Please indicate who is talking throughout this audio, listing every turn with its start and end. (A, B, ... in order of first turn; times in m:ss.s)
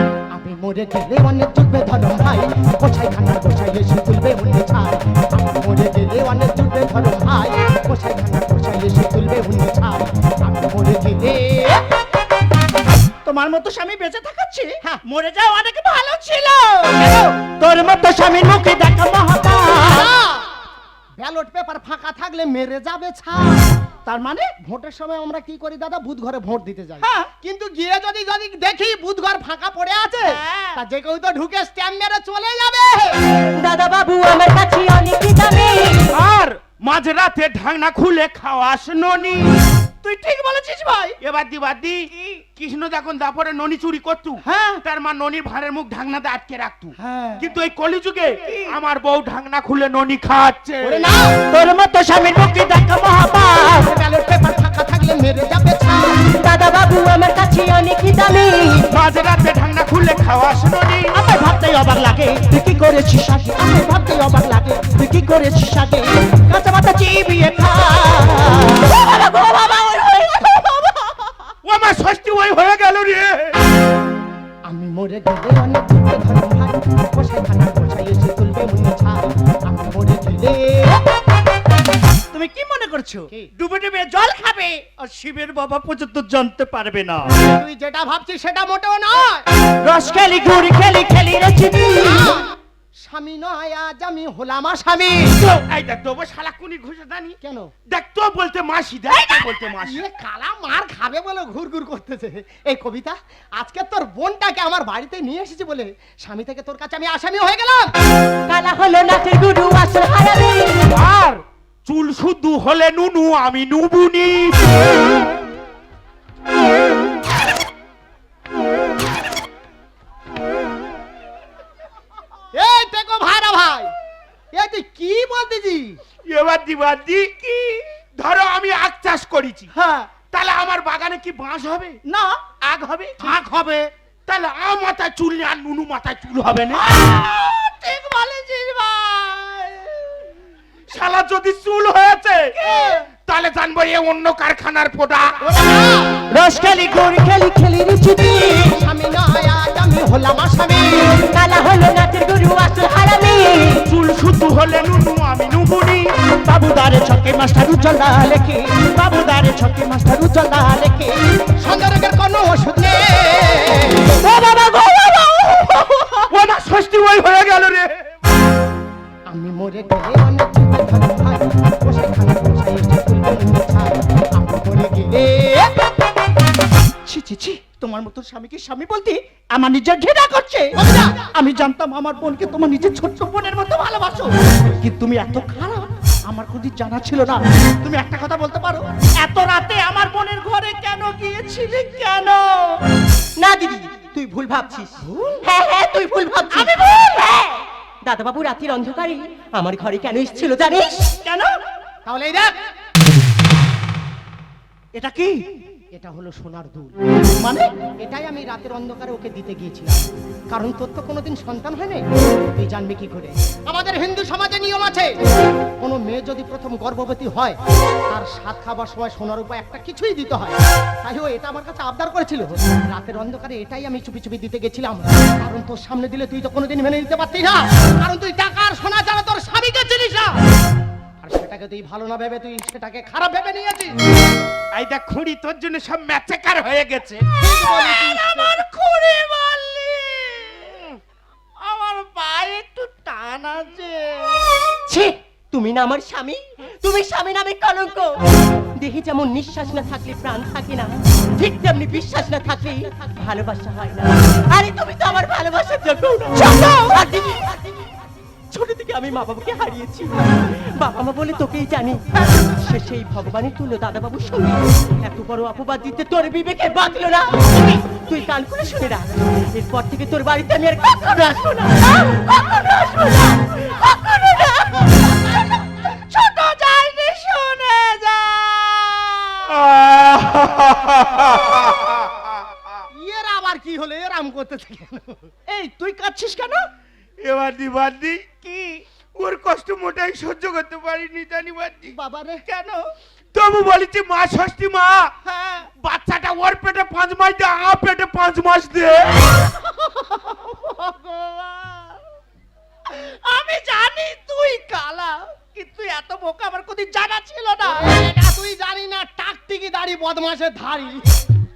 0:00.3-0:11.8 A
0:13.2-0:20.1 B
0:19.8-0:20.6 A
0:21.2-0:23.7 A
0:24.0-0:24.5 B
0:24.6-0:33.2 A
0:27.0-0:27.3 B
0:30.2-0:30.8 B
0:33.6-0:36.1 C
0:36.1-0:39.5 D
0:40.0-0:41.2 B
0:41.2-0:51.1 D
0:42.1-0:42.4 B
0:44.4-0:44.8 B
0:47.0-0:47.4 B
0:48.4-0:48.8 B
0:50.8-0:51.4 A
0:51.4-0:53.9 B
0:53.8-0:56.3 A
0:56.3-0:58.9 C
0:58.9-1:01.2 D
1:01.1-1:08.9 B
1:08.8-1:11.5 C
1:11.6-1:13.6 D
1:14.6-1:21.0 A
1:22.3-1:27.4 B
1:27.4-1:29.5 A
1:29.8-1:32.4 B
1:32.0-1:35.4 A
1:35.3-1:37.4 D
1:37.4-1:37.7 A
1:37.9-1:40.0 D
1:39.8-1:47.9 A
1:48.5-1:50.9 C
1:50.9-1:54.7 D
2:02.5-2:03.9 A
2:04.5-2:06.0 A
2:06.3-2:09.7 D
2:09.7-2:10.1 B
2:10.3-2:12.0 D
2:12.0-2:12.5 B
2:12.7-2:13.3 D
2:13.2-2:13.9 B
2:14.3-2:16.8 D
2:16.7-2:20.3 B
2:20.9-2:22.6 D
2:22.6-2:23.0 B
2:23.3-2:25.4 D
2:25.4-2:26.2 A
2:26.3-2:28.8 B
2:28.6-2:31.3 A
2:31.3-2:33.8 C
2:33.8-2:36.1 D
2:36.4-2:41.1 B
2:41.6-2:44.2 A
2:44.1-2:46.3 B
2:46.3-2:48.0 D
2:49.3-2:55.8 A
2:57.0-3:12.8 B
3:00.8-3:01.1 A
3:13.4-3:16.7 C
3:15.0-3:15.4 B
3:16.5-3:17.6 B
3:18.0-3:21.0 C
3:21.0-3:21.6 B
3:22.0-3:22.5 A
3:25.0-3:25.4 B
3:25.9-3:27.0 A
3:27.4-3:27.7 B
3:27.8-3:35.2 A
3:35.8-3:37.6 A
3:38.1-3:50.4 A
3:51.2-3:54.0 A
3:54.7-3:57.2 D
3:57.4-3:58.6 A
3:57.5-4:01.0 B
4:01.6-4:04.8 B
4:04.9-4:08.2 C
4:08.8-4:18.0 C
4:16.3-4:17.4 B
4:18.5-4:33.1 C
4:32.0-4:39.6 B
4:39.5-4:42.8 D
4:42.9-4:45.3 A
4:45.5-4:46.7 B
4:47.2-4:48.2 D
4:48.4-4:48.8 B
4:49.2-4:51.9 D
4:51.9-4:52.4 A
4:52.5-4:52.9 B
4:53.3-4:55.1 D
4:55.2-4:55.7 B
4:55.8-4:59.3 D
4:59.3-5:02.0 B
5:02.8-5:07.9 B
5:07.6-5:11.2 A